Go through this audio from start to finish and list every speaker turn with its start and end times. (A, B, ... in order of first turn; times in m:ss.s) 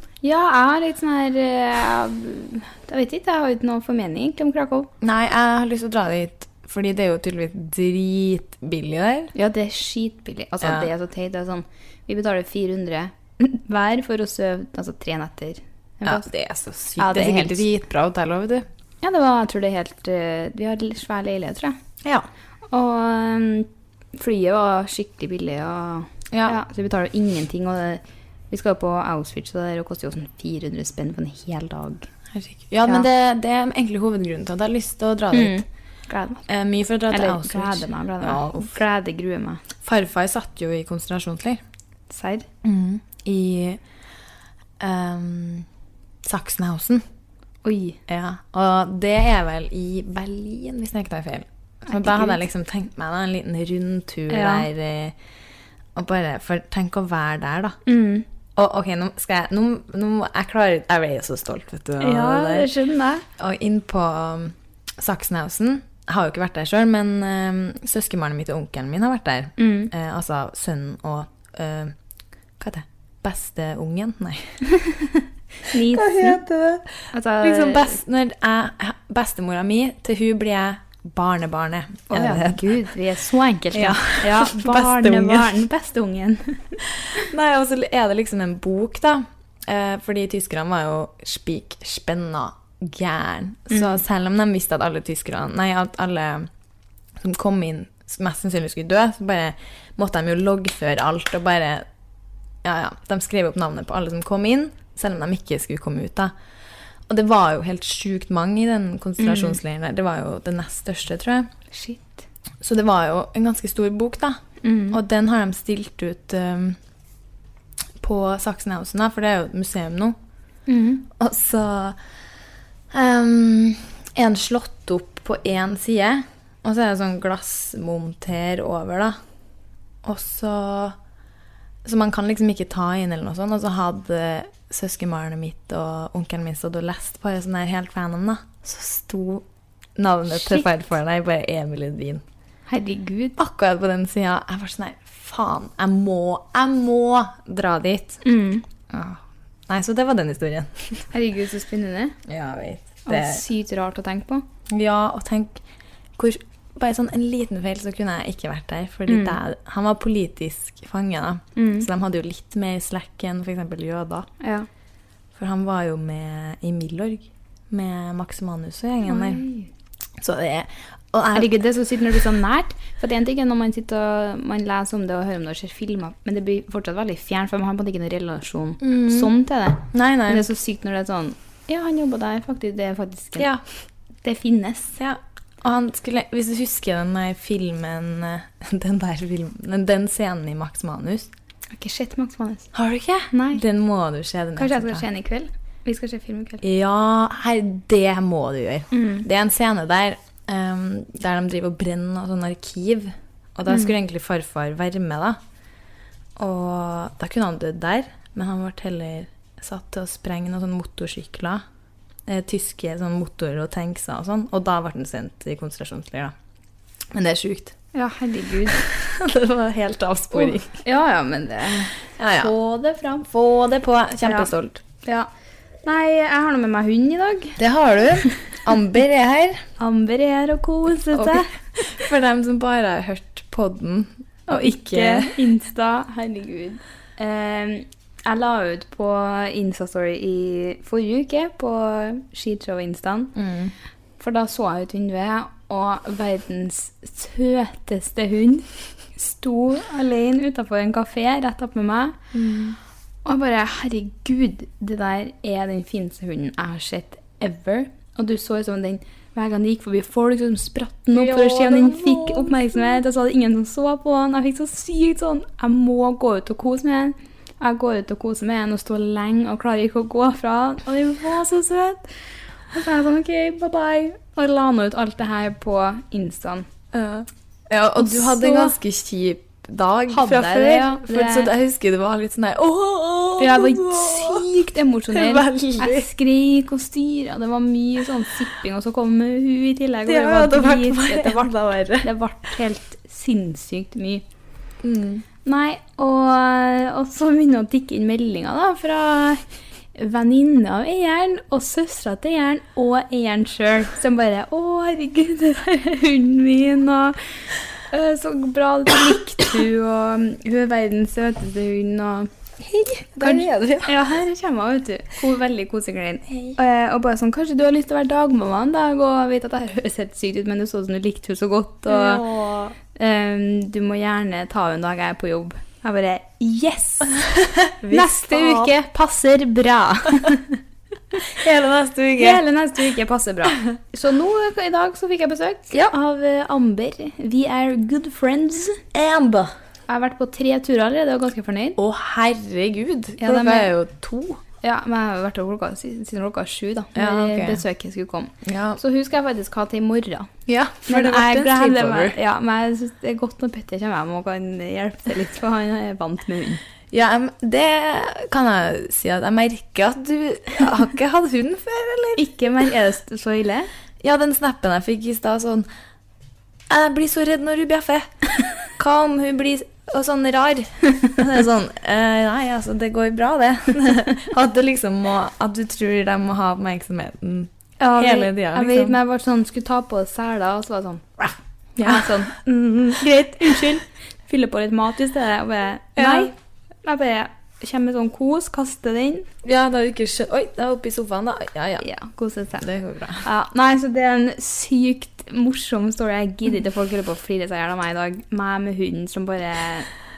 0:00.2-0:04.9 A
0:05.0-0:09.3 B
0:09.3-0:16.3 A
0:10.6-0:10.9 B
0:16.0-0:18.7 B
0:17.0-0:17.7 A
0:19.0-0:21.8 A
0:22.7-0:32.1 A
0:26.3-0:26.6 B
0:32.3-0:35.6 B
0:35.3-0:36.4 A
0:36.5-0:38.8 B
0:37.1-0:39.6 A
0:39.8-0:41.6 B
0:42.1-0:42.5 A
0:42.6-0:43.8 B
0:44.8-0:45.7 B
0:46.2-0:47.0 B
0:47.6-0:48.0 A
0:48.1-0:55.1 B
0:51.8-0:52.4 A
0:54.3-0:54.7 A
0:55.9-0:57.8 B
0:57.8-0:58.2 A
0:58.6-1:02.7 B
1:02.0-1:03.2 A
1:03.4-1:11.9 B
1:09.6-1:09.9 A
1:12.6-1:14.6 B
1:14.8-1:16.4 A
1:15.7-1:22.9 B
1:17.1-1:18.0 A
1:22.1-1:26.8 A
1:23.7-1:25.6 B
1:27.0-1:36.5 B
1:37.2-1:41.9 B
1:42.6-1:46.3 B
1:47.1-1:51.5 B
1:49.2-1:49.6 A
1:51.7-1:52.2 A
1:52.6-1:54.4 B
1:54.6-1:55.0 A
1:54.9-1:56.8 B
1:58.0-2:00.2 B
2:00.7-2:01.1 A
2:01.2-2:02.0 B
2:02.9-2:09.2 B
2:10.0-2:11.0 B
2:11.8-2:19.4 B
2:20.0-2:22.2 B
2:20.3-2:20.7 A
2:22.7-2:23.4 A
2:23.4-2:28.2 B
2:28.2-2:28.6 A
2:28.9-2:31.1 B
2:31.1-2:32.2 A
2:32.3-2:33.4 B
2:33.1-2:34.4 A
2:34.7-2:35.6 B
2:36.2-2:44.3 B
2:39.1-2:39.4 A
2:41.6-2:41.9 A
2:44.4-2:44.7 A
2:45.4-2:49.4 B
2:49.1-2:49.7 A
2:50.2-2:51.6 B
2:51.3-3:03.5 A
2:58.8-2:59.3 B
2:59.9-3:00.4 B
3:04.2-3:04.9 A
3:05.0-3:11.3 B
3:11.8-3:12.7 A
3:12.7-3:15.0 B
3:13.3-3:13.6 A
3:14.6-3:16.6 A
3:16.6-3:25.4 B
3:18.9-3:19.2 A
3:26.4-3:31.6 B
3:32.2-3:36.3 B
3:37.1-3:37.8 B
3:37.9-3:38.8 A
3:38.7-3:40.8 B
3:40.3-3:43.2 A
3:42.2-3:44.8 B
3:44.2-3:44.5 A
3:45.8-3:47.6 A
3:47.6-3:49.6 B
3:49.8-3:51.5 A
3:51.1-3:55.3 B
3:54.5-4:03.3 A
4:03.3-4:03.7 B
4:04.2-4:12.2 A
4:12.3-4:12.8 B
4:13.2-4:32.1 A
4:21.1-4:23.0 B
4:32.7-4:36.7 A
4:36.9-4:44.5 B
4:38.0-4:38.7 A
4:40.1-4:41.5 A
4:43.4-4:54.2 A
4:45.1-4:46.1 B
4:50.1-4:52.1 B
4:54.8-4:55.2 B
4:55.4-4:59.4 A
5:00.0-5:07.2 A
5:07.9-5:12.3 A
5:12.6-5:14.0 B
5:13.2-5:22.2 A
5:16.3-5:16.6 B
5:21.9-5:22.8 B
5:23.0-5:27.2 A
5:27.2-5:28.7 B
5:27.9-5:30.6 A
5:31.2-5:32.4 B
5:32.2-5:38.8 A
5:38.9-5:39.5 B
5:39.9-5:41.8 A
5:41.8-5:44.4 B
5:43.2-5:43.7 A
5:44.6-5:50.3 A
5:47.0-5:47.6 B
5:48.4-5:48.8 B
5:50.5-5:52.2 B
5:50.8-5:56.6 A
5:56.9-6:02.3 B
6:02.2-6:03.7 A
6:04.0-6:05.7 B
6:06.7-6:08.1 B
6:08.7-6:19.0 B
6:17.8-6:26.3 A
6:21.8-6:22.3 B
6:26.0-6:26.3 B
6:26.8-6:29.3 A
6:29.4-6:31.9 B
6:31.8-6:32.6 A
6:32.6-6:33.2 B
6:33.2-6:39.9 A